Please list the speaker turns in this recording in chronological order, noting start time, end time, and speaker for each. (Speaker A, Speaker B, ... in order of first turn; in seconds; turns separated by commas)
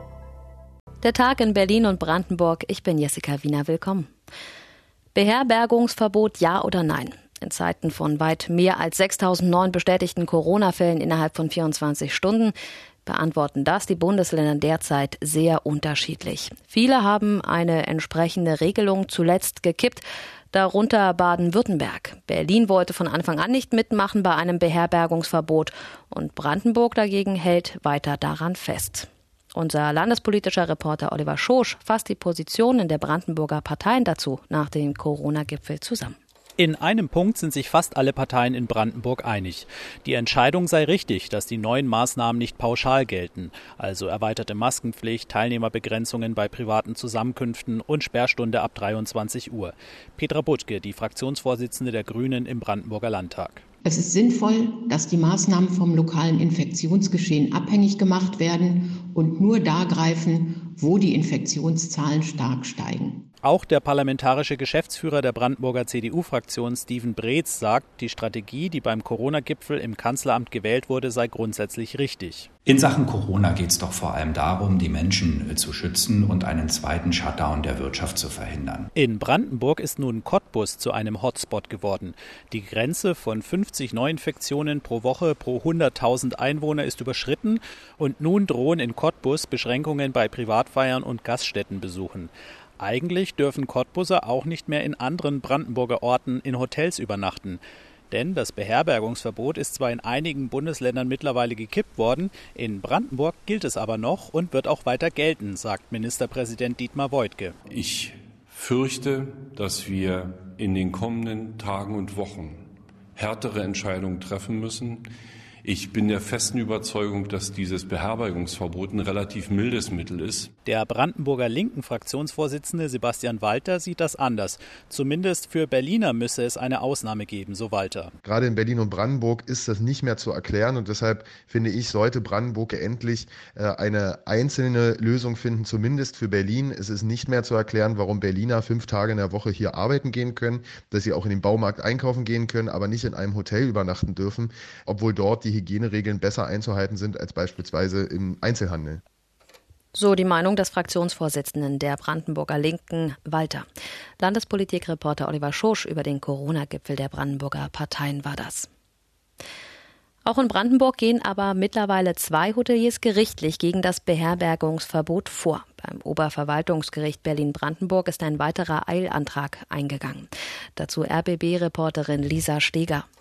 Speaker A: 1.0-4.1, Speaker A: 5.2-12.5, Speaker A: 13.1-36.2, Speaker B: 36.6-53.6, Speaker C: 53.9-63.2, Speaker B: 63.4-72.5, Speaker D: 72.7-78.9, Speaker B: 79.0-107.6, Speaker E: 107.7-112.6, Speaker E: 113.2-115.1, Speaker E: 115.6-120.5, Speaker B: 120.7-128.1, Speaker F: 128.2-149.0, Speaker A: 149.9-153.7, Speaker A: 154.2-158.7, Speaker A: 160.2-173.1